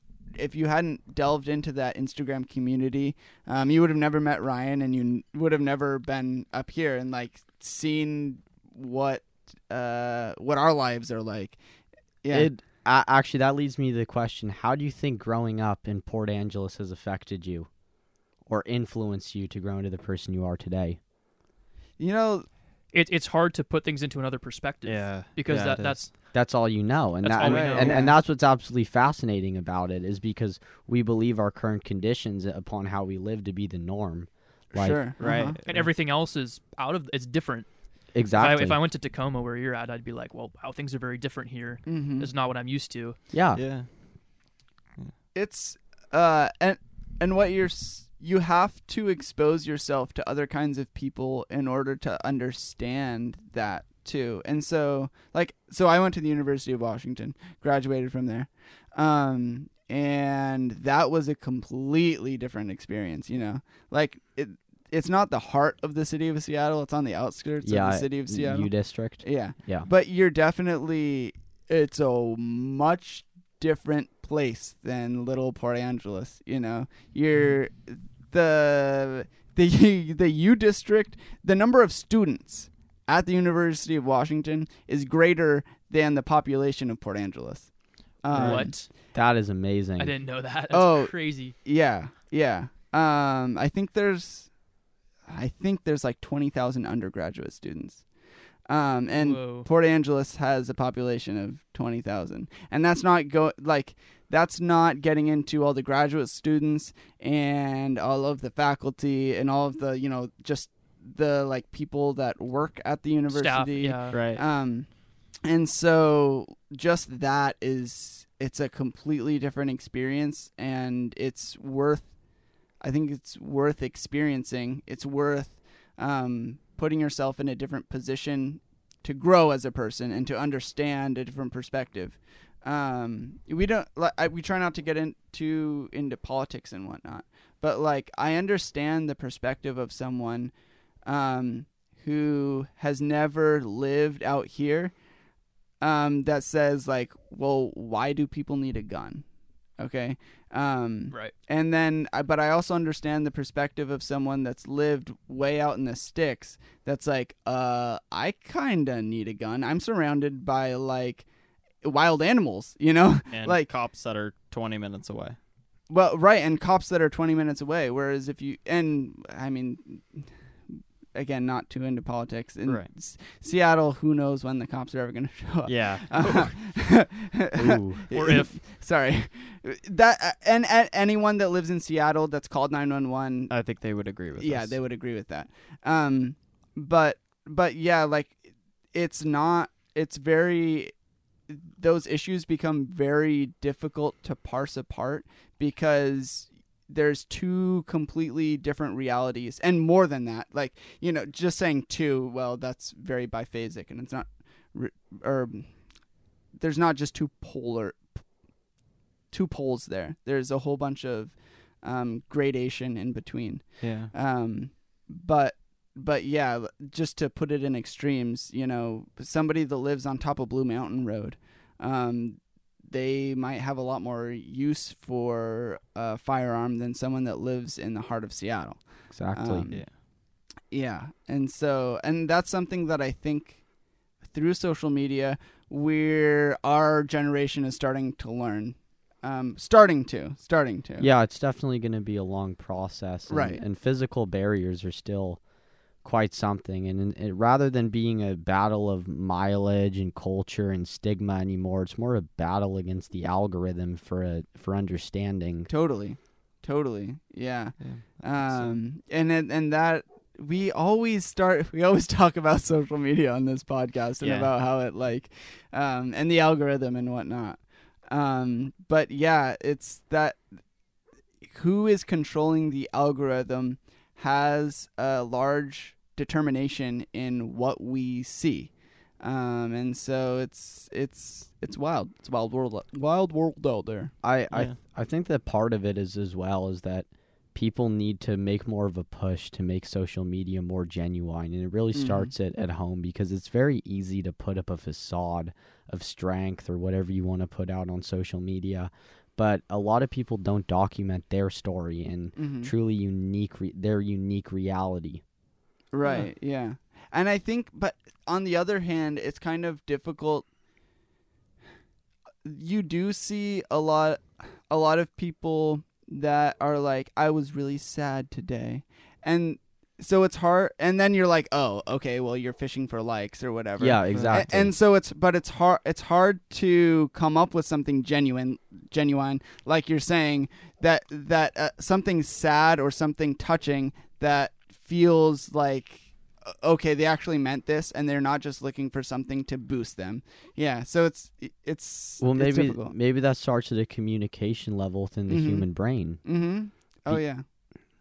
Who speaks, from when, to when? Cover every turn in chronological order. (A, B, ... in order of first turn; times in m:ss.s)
0:00.3-0:11.6 A
0:12.2-0:12.5 A
0:12.3-0:17.7 B
0:18.4-0:21.0 B
0:22.0-0:22.5 A
0:22.9-0:26.1 C
0:24.8-0:26.0 D
0:26.3-0:35.0 B
0:27.2-0:28.0 C
0:27.4-0:28.2 A
0:34.7-0:35.6 A
0:35.2-0:35.8 D
0:35.6-0:37.7 C
0:38.1-0:38.8 B
0:38.4-0:43.2 C
0:41.8-0:42.3 A
0:43.3-0:43.6 B
0:43.5-0:43.9 D
0:45.3-1:28.7 A
1:07.6-1:09.9 B
1:28.3-1:28.9 C
1:28.3-1:30.1 B
1:30.0-1:31.6 C
1:30.7-1:34.5 A
1:35.3-1:38.0 A
1:38.6-1:54.9 A
1:39.2-1:39.7 C
1:53.3-1:54.2 C
1:54.1-1:54.4 D
1:55.4-2:02.1 A
2:02.8-2:20.5 A
2:21.0-2:24.9 A
2:25.8-2:29.2 A
2:29.8-2:41.2 A
2:41.8-2:43.7 A
2:43.3-2:45.4 D
2:45.9-3:03.5 A
2:55.6-2:56.5 D
2:57.6-2:58.0 B
2:58.1-2:58.6 C
3:03.5-3:04.8 D
3:04.4-3:08.4 A
3:08.9-3:10.9 A
3:11.5-3:25.7 A
3:26.5-3:28.2 A
3:29.3-3:49.9 A
3:33.8-3:34.1 D
3:49.1-3:49.8 B
3:50.7-3:53.6 A
3:54.2-4:01.1 A
4:01.0-4:05.4 B
4:03.3-4:03.6 A
4:06.0-4:15.7 B
4:15.7-4:30.4 A
4:17.8-4:18.6 D
4:24.2-4:24.5 D
4:31.4-4:44.1 A
4:44.2-5:05.2 B
4:51.9-4:52.3 A
5:02.4-5:02.7 A
5:05.9-5:10.4 A
5:12.4-5:42.9 A
5:23.8-5:24.7 B
5:24.1-5:24.4 D
5:42.2-5:46.2 B
5:45.3-5:45.7 A
5:46.2-5:47.4 A